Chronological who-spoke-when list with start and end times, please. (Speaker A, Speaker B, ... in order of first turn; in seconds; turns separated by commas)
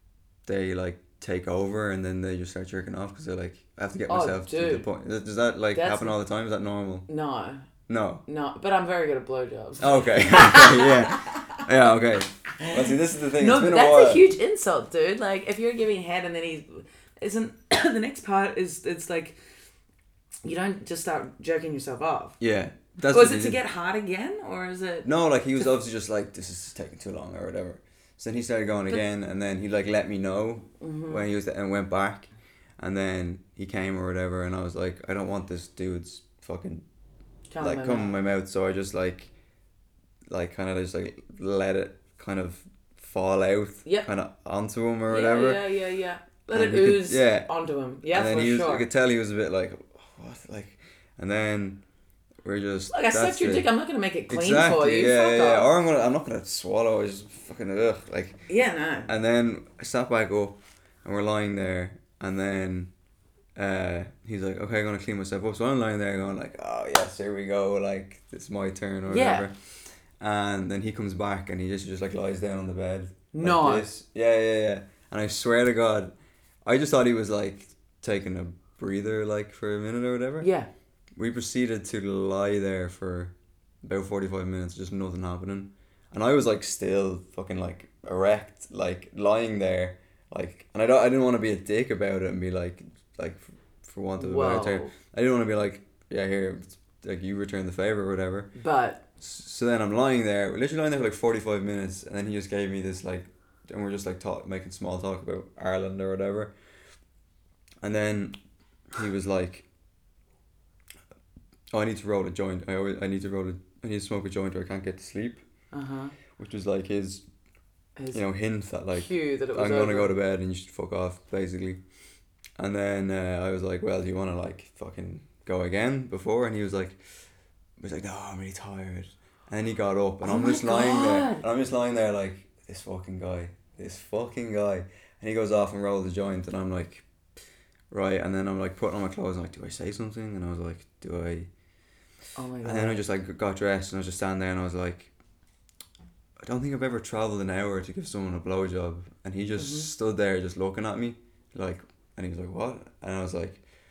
Speaker A: 0.5-7.1, Speaker B: 4.1-4.9, Speaker B: 5.7-6.2, Speaker B: 7.1-7.6, Speaker A: 7.9-8.2, Speaker B: 8.3-11.6, Speaker A: 9.8-14.2, Speaker B: 12.6-19.4, Speaker B: 20.4-22.4, Speaker A: 22.4-23.6, Speaker B: 23.1-25.1, Speaker A: 25.0-36.8, Speaker B: 30.8-31.3, Speaker B: 37.5-38.2, Speaker A: 37.6-39.3, Speaker A: 40.3-45.6, Speaker B: 43.8-44.1, Speaker B: 45.1-48.9, Speaker A: 46.5-47.5, Speaker A: 48.1-51.8, Speaker A: 52.4-53.7, Speaker B: 52.9-55.7, Speaker A: 54.3-58.4, Speaker B: 58.5-59.1, Speaker A: 59.1-62.9, Speaker A: 63.5-76.1, Speaker B: 69.1-69.5, Speaker B: 73.3-73.9, Speaker A: 76.7-80.5, Speaker B: 80.4-80.7, Speaker A: 81.2-98.5, Speaker B: 94.2-94.9, Speaker B: 98.5-99.0, Speaker A: 99.2-106.5, Speaker A: 107.8-108.3, Speaker A: 108.9-109.7, Speaker A: 111.7-115.4, Speaker B: 115.7-116.1, Speaker A: 116.3-117.2, Speaker B: 118.0-118.2, Speaker A: 118.1-121.8, Speaker B: 118.9-120.1, Speaker A: 122.6-127.0, Speaker A: 127.8-137.0, Speaker B: 130.2-131.4, Speaker A: 137.9-141.5, Speaker B: 142.3-143.0, Speaker A: 142.6-145.1, Speaker A: 146.4-153.6, Speaker B: 149.6-149.9